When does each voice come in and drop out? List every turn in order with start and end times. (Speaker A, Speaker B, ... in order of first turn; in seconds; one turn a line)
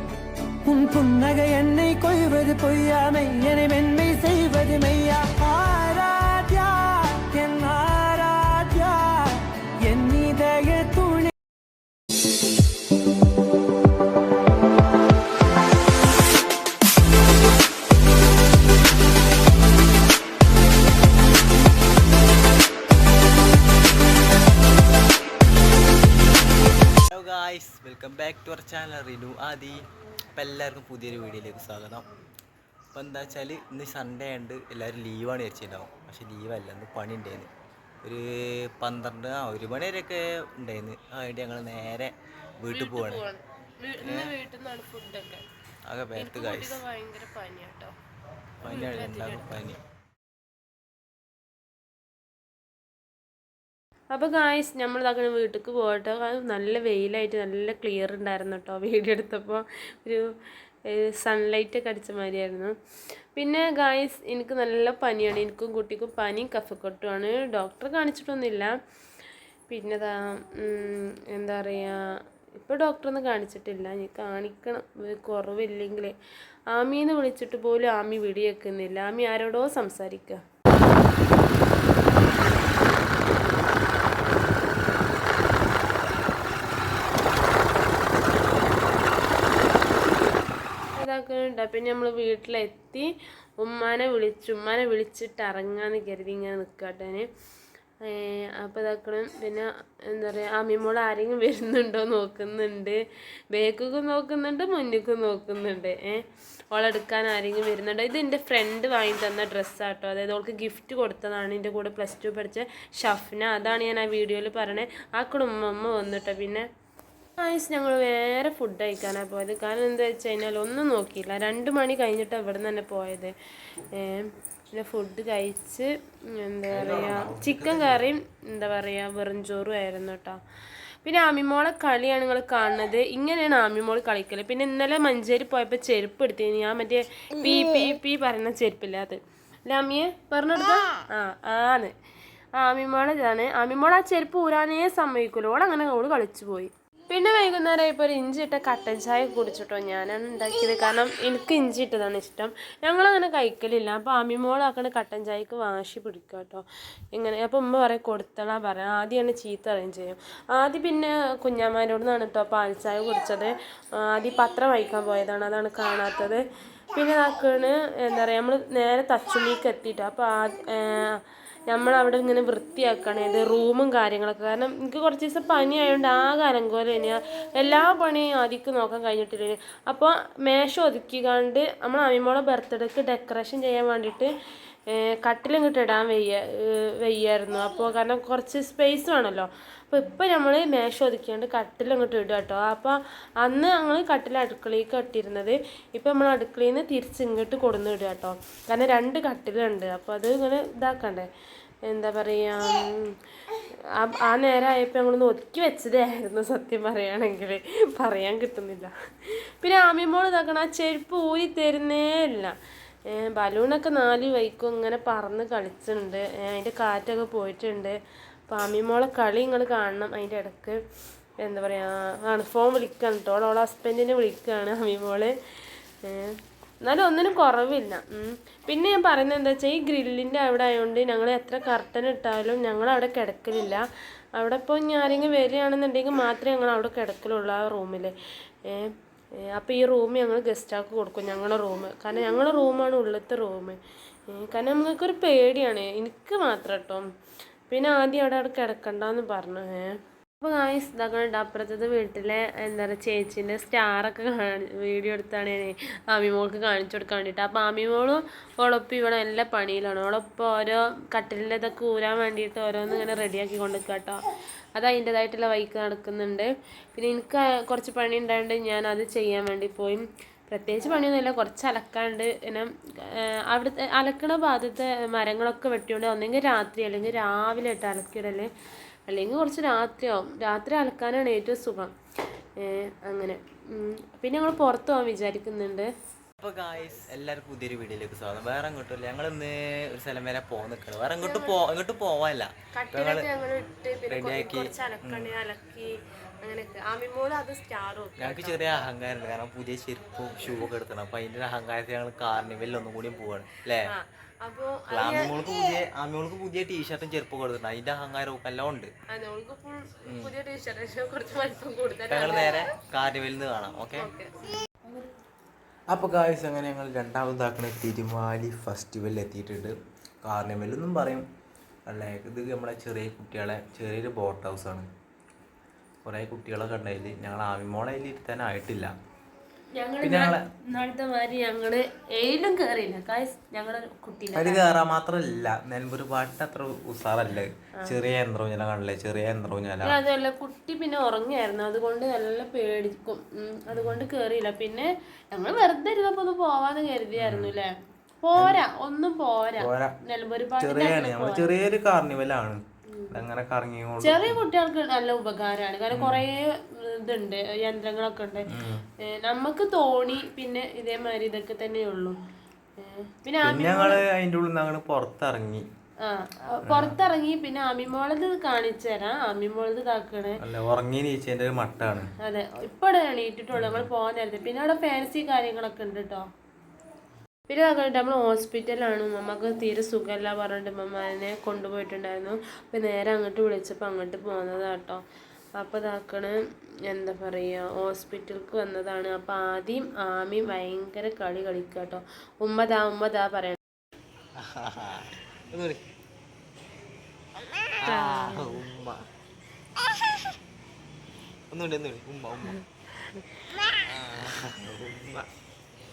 Speaker A: 0.6-11.3
Speaker B: 27.0-29.8
Speaker B: 30.3-32.1
Speaker B: 32.9-37.5
Speaker B: 38.0-43.2
Speaker C: 42.7-45.4
Speaker B: 44.0-44.3
Speaker B: 45.9-46.8
Speaker C: 46.1-47.9
Speaker B: 48.6-49.8
Speaker C: 48.6-49.6
Speaker C: 54.1-60.3
Speaker C: 60.9-62.7
Speaker C: 63.3-68.7
Speaker C: 69.7-76.2
Speaker C: 76.7-80.4
Speaker C: 91.0-97.3
Speaker C: 98.0-103.0
Speaker C: 103.5-116.7
Speaker C: 117.4-130.4
Speaker B: 126.7-128.1
Speaker C: 131.0-141.9
Speaker C: 142.6-166.4
Speaker C: 166.9-184.3
Speaker C: 184.9-201.3
Speaker C: 201.8-212.5
Speaker C: 213.1-220.8
Speaker C: 221.4-225.3
Speaker C: 226.0-233.8
Speaker C: 234.3-238.1
Speaker C: 238.7-247.1
Speaker C: 247.7-264.2
Speaker C: 264.7-278.5
Speaker C: 279.1-281.9
Speaker C: 282.6-285.9
Speaker B: 286.4-293.3
Speaker C: 291.2-291.6
Speaker C: 292.7-298.8
Speaker B: 294.1-295.3
Speaker B: 298.2-303.9
Speaker C: 303.9-305.4
Speaker B: 304.9-308.9
Speaker C: 309.1-312.7
Speaker B: 310.1-310.3
Speaker B: 312.1-314.1
Speaker C: 313.9-314.5
Speaker B: 315.9-321.3
Speaker B: 321.9-324.9
Speaker B: 326.1-328.9
Speaker C: 329.7-334.6
Speaker B: 330.0-330.4
Speaker B: 334.3-340.0
Speaker C: 339.8-351.5
Speaker B: 343.7-344.1
Speaker B: 347.1-347.5
Speaker B: 348.3-348.6
Speaker B: 349.6-349.9
Speaker B: 350.6-354.4
Speaker C: 352.9-353.2
Speaker C: 354.0-358.5
Speaker B: 355.9-356.2
Speaker B: 358.5-358.8
Speaker C: 359.0-362.2
Speaker C: 362.8-364.0
Speaker B: 363.4-365.6
Speaker C: 366.0-370.4
Speaker B: 366.6-367.0
Speaker B: 370.4-372.1
Speaker C: 372.2-376.3
Speaker B: 373.5-373.9
Speaker C: 377.5-385.0
Speaker C: 385.6-393.6
Speaker B: 394.4-395.8
Speaker B: 397.8-399.0
Speaker C: 397.9-398.6
Speaker B: 401.5-402.6
Speaker B: 403.8-405.3